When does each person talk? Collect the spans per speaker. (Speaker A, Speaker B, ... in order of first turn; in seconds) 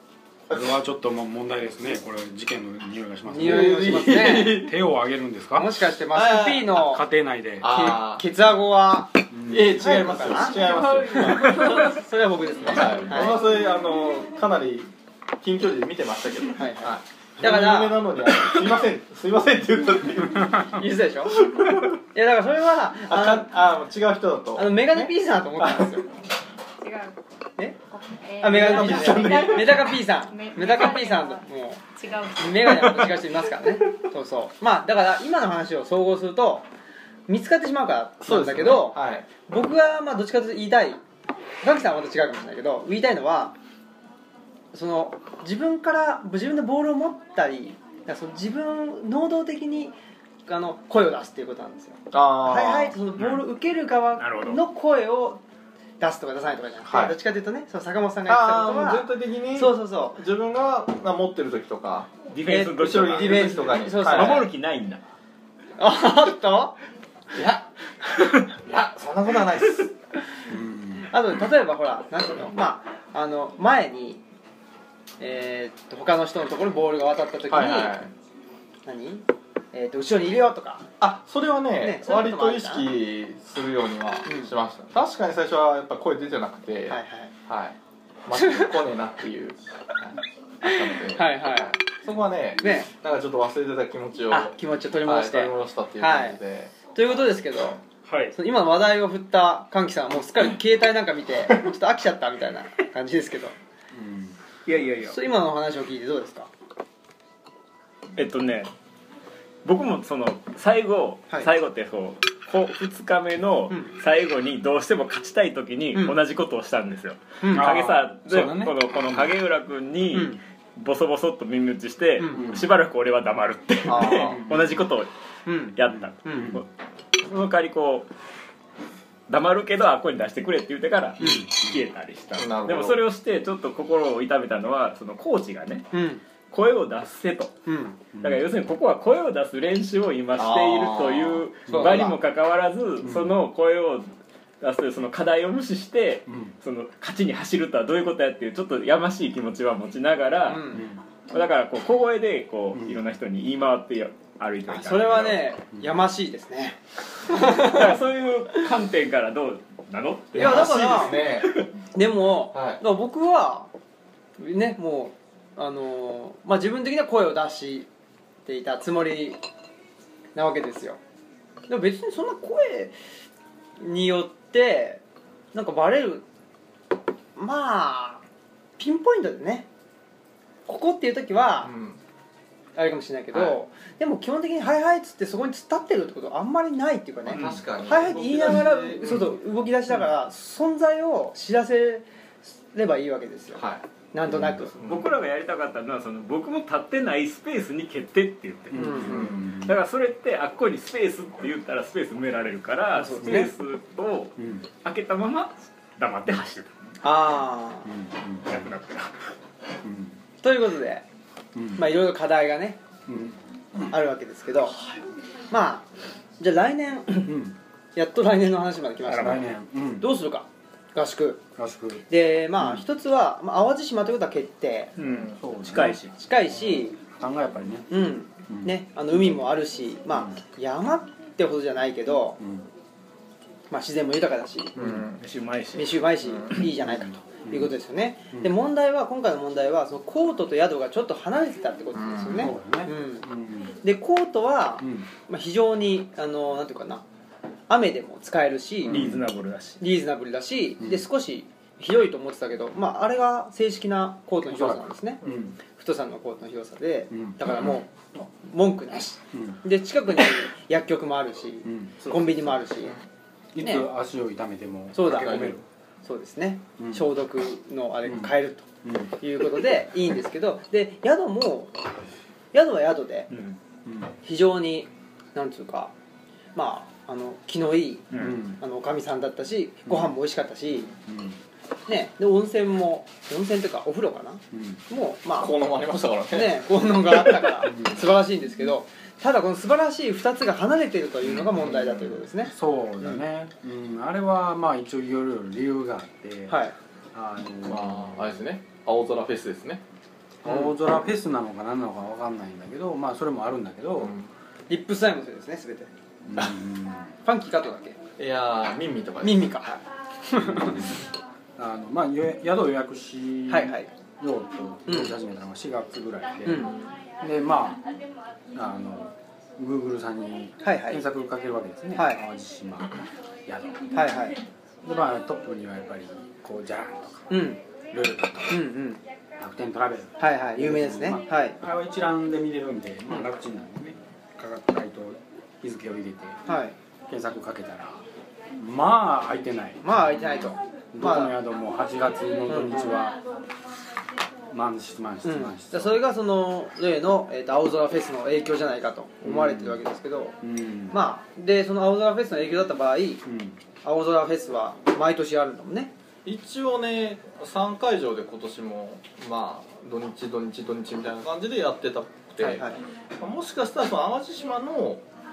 Speaker A: 0.5-0.8, 3.4-4.5, 6.1-6.7, 7.6-8.2, 9.5-12.0, 12.7-20.8, 21.3-21.9, 23.1-26.0, 28.4-30.0, 38.2-39.2, 52.1-52.9, 56.9-57.1, 58.3-62.1, 62.6-64.5, 67.3-67.6, 68.2-69.9, 77.5-78.1, 81.0-96.9, 123.8-124.5, 132.3-133.0, 140.3-141.4, 160.3-161.6, 162.5-162.8, 181.6-182.0, 183.3-183.6, 187.3-189.3, 193.5-193.8, 194.8-195.1, 198.8-199.5, 225.1-225.3, 234.8-235.2, 236.2-236.5, 241.9-242.5, 262.1-263.0, 265.1-265.6, 285.4-287.6, 291.2-292.2, 297.6-299.8, 304.0-304.3, 308.2-309.5, 316.5-316.8, 356.2-365.0
Speaker B: 0.5-5.7, 6.7-7.9, 9.3-9.9, 70.5-71.1, 103.9-104.3, 117.5-119.3, 122.3-122.7, 124.2-124.8, 125.9-126.6, 131.2-131.8, 138.1-138.4, 141.7-142.1, 143.0-143.3, 146.3-146.5, 150.7-151.0, 152.7-153.0, 194.3-194.6, 198.7-199.8, 203.2-203.5, 204.4-204.7, 207.8-208.7, 209.8-210.2, 211.5-211.9, 213.1-213.9, 217.2-217.6, 219.1-220.1, 221.6-222.0, 222.6-222.8, 225.2-226.0, 226.7-229.4, 230.1-230.4, 232.4-232.7, 234.8-235.0, 236.8-237.7, 242.3-243.8, 244.8-245.1, 248.8-249.3, 250.8-251.0, 254.4-255.6, 257.1-257.7, 259.3-259.6, 261.6-261.9, 263.5-265.6, 266.8-267.1, 268.0-269.1, 273.8-274.1, 278.1-278.6, 281.1-281.4, 284.5-284.8, 287.6-288.0, 292.4-296.6, 297.1-298.3, 300.4-304.1, 306.2-307.1, 310.4-311.0, 311.6-317.8, 318.5-324.1, 324.8-327.4, 327.9-328.6, 329.4-336.4, 337.1-338.0, 338.6-340.4, 340.9-343.2, 344.5-346.0, 349.2-349.8, 350.4-351.0, 353.2-353.6
Speaker C: 3.3-4.7, 5.5-7.0, 7.6-13.5, 16.6-18.1, 20.6-21.4, 22.1-23.5, 24.5-26.0, 28.4-31.8, 32.4-36.7, 37.3-41.0, 41.6-43.5, 44.7-49.9, 50.5-55.4, 56.0-60.2, 62.4-64.5, 65.8-66.8, 71.0-74.2, 75.2-78.0, 78.8-80.9, 81.8-82.9, 84.2-84.5, 86.9-87.3, 88.4-88.7, 90.7-91.7, 92.6-92.9, 94.3-96.4, 96.9-97.8, 98.3-103.5, 105.0-106.5, 117.4-117.9, 120.1-120.4, 122.2-122.5, 125.5-126.5, 131.2-131.4, 135.9-136.2, 137.7-138.0, 141.7-142.2, 150.4-150.8, 154.7-158.0, 160.3-163.7, 164.4-167.9, 168.4-169.4, 170.3-171.0, 171.7-172.9, 173.8-175.0, 175.5-176.2, 177.3-178.2, 178.8-179.7, 180.7-181.7, 182.8-192.0, 192.7-194.7, 198.7-199.2, 202.9-203.5, 207.0-207.9, 210.4-211.1, 211.7-212.8, 213.9-214.7, 215.5-215.9, 216.4-217.3, 217.9-221.4, 222.1-224.9, 226.1-226.9, 227.9-232.4, 233.7-234.8, 235.8-243.2, 243.8-247.0, 247.7-249.0, 249.8-262.9, 263.6-263.9, 264.9-265.5, 266.0-268.7, 269.2-271.7, 272.5-273.3, 274.2-275.9, 276.5-280.9, 281.9-285.5, 286.3-293.2, 296.5-296.7, 300.4-300.7, 304.7-305.9, 307.2-308.0, 309.2-310.8, 313.5-313.9, 314.9-315.1, 316.4-316.7, 320.6-321.0, 321.9-322.2, 323.9-324.4, 327.3-327.6, 328.5-329.0, 330.2-331.6, 336.5-336.7, 339.8-341.3, 342.5-343.0, 345.2-350.3, 350.9-353.2, 353.8-355.9, 362.4-362.8
Speaker D: 10.6-11.9, 26.8-27.1, 27.9-31.4, 31.9-32.9
Speaker E: 53.2-53.4, 54.2-54.6, 62.3-65.0, 98.1-98.3, 104.7-105.2, 108.2-108.7, 109.6-125.1, 125.7-126.7, 127.2-128.1, 129.3-135.9, 136.5-137.5, 138.2-150.7, 151.3-155.5, 157.3-161.0, 187.3-187.6, 194.8-206.8, 208.5-209.1, 219.1-219.4, 225.0-226.1, 235.2-236.0, 248.8-249.8, 273.3-273.6, 278.1-278.4